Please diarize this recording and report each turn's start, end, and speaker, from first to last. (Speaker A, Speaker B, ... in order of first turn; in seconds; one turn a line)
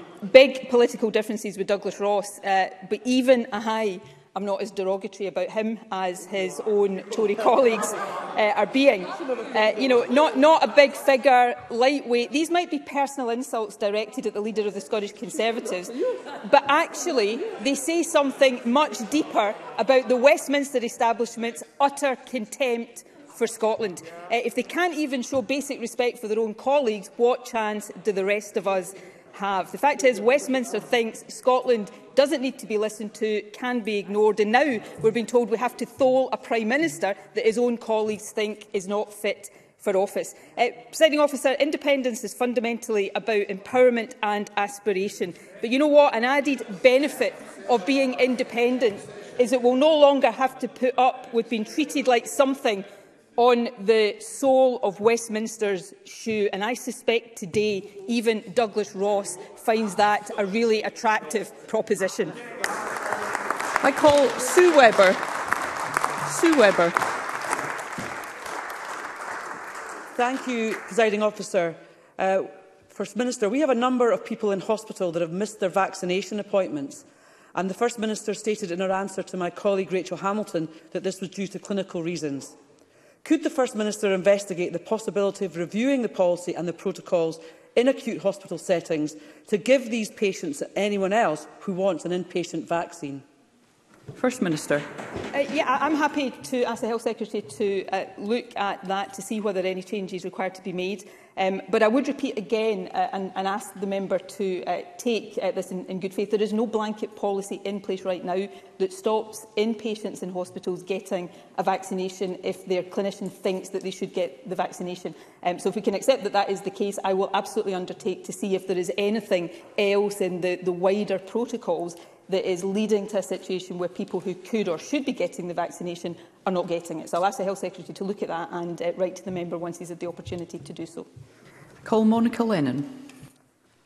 Speaker A: 0.2-62.4
Speaker B: 63.8-65.2
Speaker B: 66.2-67.0
Speaker C: 70.2-82.5
Speaker C: 83.2-93.2
Speaker B: 94.1-94.9
Speaker A: 95.3-131.1
Speaker B: 131.8-133.1